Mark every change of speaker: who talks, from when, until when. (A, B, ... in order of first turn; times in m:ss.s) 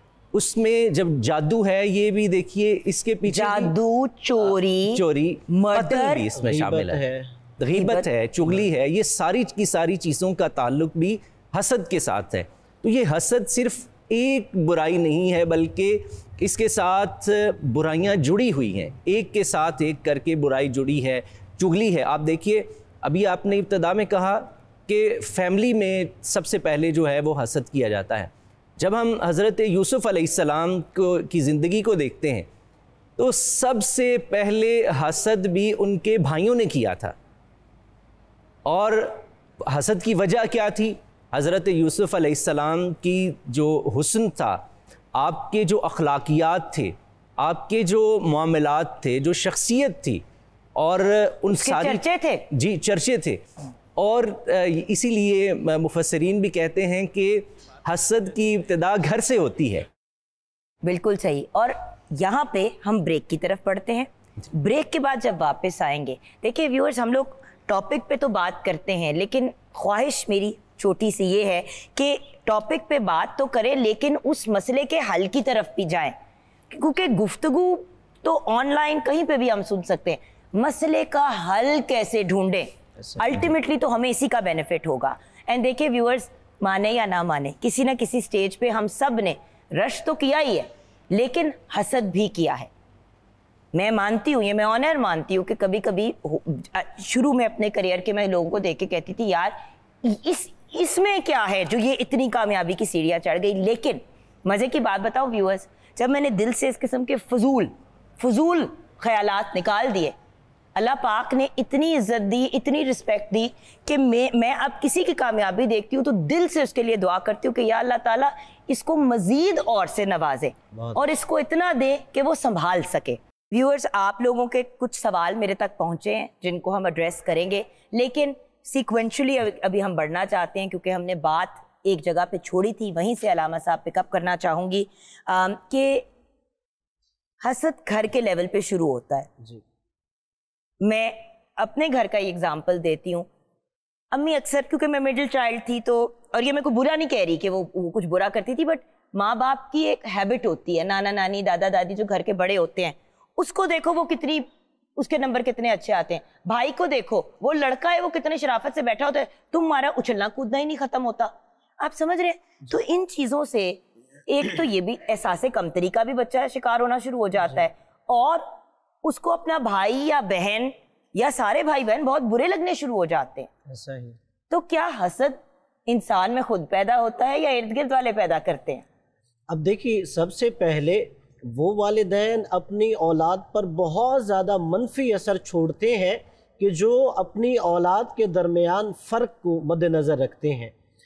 0:00.3-0:03.7 A
0:03.3-0:06.2 B
0:04.5-0:07.0 A
0:06.4-0:07.3 C
0:07.6-0:32.5 A
0:07.8-0:08.1 B
0:33.2-0:37.1 A
0:38.7-0:44.6 A
0:45.1-0:50.2 A
0:50.8-0:53.4 A
0:51.5-0:52.5 B
0:54.0-0:59.9 A
1:00.8-1:16.2 B
1:16.7-1:32.7 B
1:33.7-1:50.1 B
1:50.8-2:16.1 B
2:00.7-2:01.0 C
2:17.4-2:19.3 B
2:20.8-2:23.3 B
2:24.1-2:34.4 B
2:35.0-2:53.5 B
2:53.7-2:54.2 C
2:54.5-2:58.8 B
2:59.5-3:10.7 C